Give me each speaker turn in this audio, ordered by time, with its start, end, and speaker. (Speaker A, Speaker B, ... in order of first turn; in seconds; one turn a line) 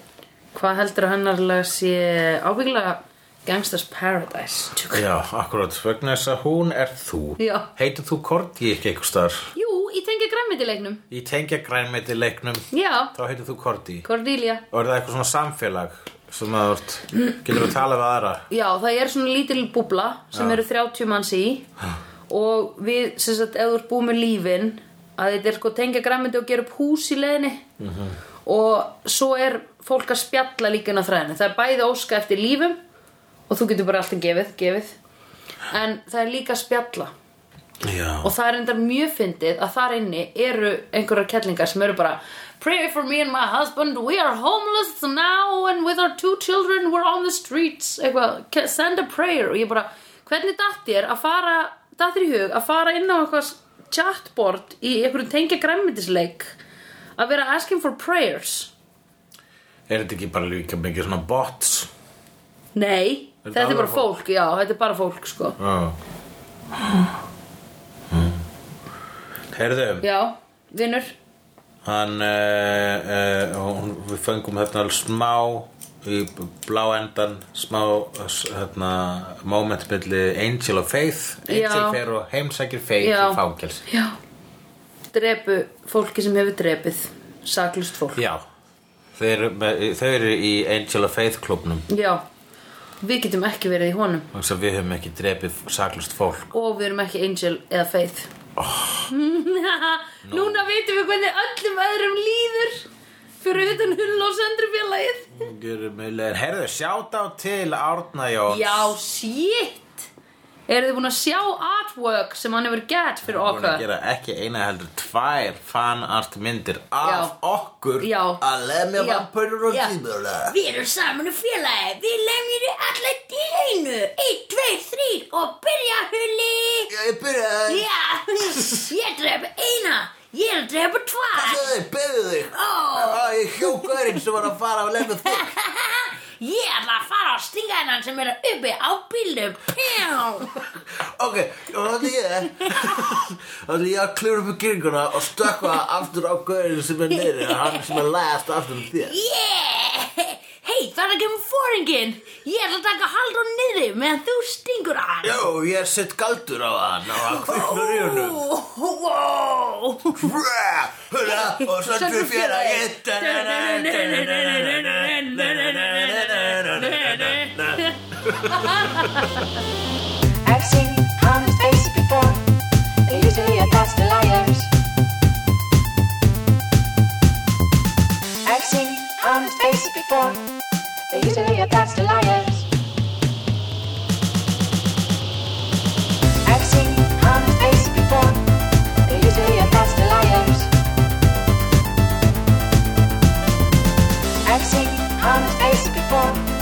Speaker A: 0.5-5.0
Speaker B: 4.9-9.5
Speaker A: 7.4-7.7
Speaker A: 9.5-11.0
Speaker B: 11.1-14.1
Speaker A: 12.7-13.1
Speaker A: 14.0-14.6
Speaker B: 14.7-18.4
Speaker A: 18.5-21.7
Speaker B: 20.3-20.6
Speaker A: 22.3-27.6
Speaker B: 27.8-28.2
Speaker A: 28.4-32.8
Speaker A: 33.5-34.9
Speaker A: 35.7-37.1
Speaker B: 37.8-38.3
Speaker A: 38.2-56.5
Speaker A: 57.2-58.7
Speaker B: 59.9-61.9
Speaker A: 62.7-65.6
Speaker B: 63.4-64.1
Speaker B: 65.6-66.0
Speaker B: 68.1-68.4
Speaker B: 69.5-70.0
Speaker A: 70.0-71.1
Speaker B: 71.8-83.9
Speaker A: 81.5-82.0
Speaker A: 83.0-84.2
Speaker A: 85.1-88.2
Speaker B: 88.1-88.4
Speaker B: 89.2-91.9
Speaker A: 91.9-92.2
Speaker A: 93.0-94.3
Speaker B: 94.3-96.5
Speaker A: 96.5-98.3
Speaker B: 98.5-99.1
Speaker A: 99.1-102.9
Speaker B: 100.2-100.7
Speaker A: 103.4-105.5
Speaker B: 105.3-108.9
Speaker A: 108.5-110.1
Speaker A: 110.7-113.8
Speaker B: 113.2-120.5
Speaker A: 117.0-117.3
Speaker A: 118.0-118.4
Speaker A: 118.9-126.9
Speaker B: 126.9-128.9
Speaker A: 127.7-131.7
Speaker B: 131.3-135.5
Speaker A: 132.5-134.2
Speaker A: 135.2-140.7
Speaker B: 140.7-149.1
Speaker A: 142.6-143.1
Speaker A: 147.4-147.8
Speaker A: 149.0-155.4
Speaker B: 155.2-158.5
Speaker A: 157.2-160.3
Speaker B: 160.1-169.3
Speaker A: 161.2-169.5
Speaker C: 170.4-172.4
Speaker C: 173.1-174.7
Speaker C: 178.4-180.4
Speaker C: 181.1-182.7
Speaker C: 186.4-188.4
Speaker C: 189.1-190.7
Speaker C: 194.4-196.4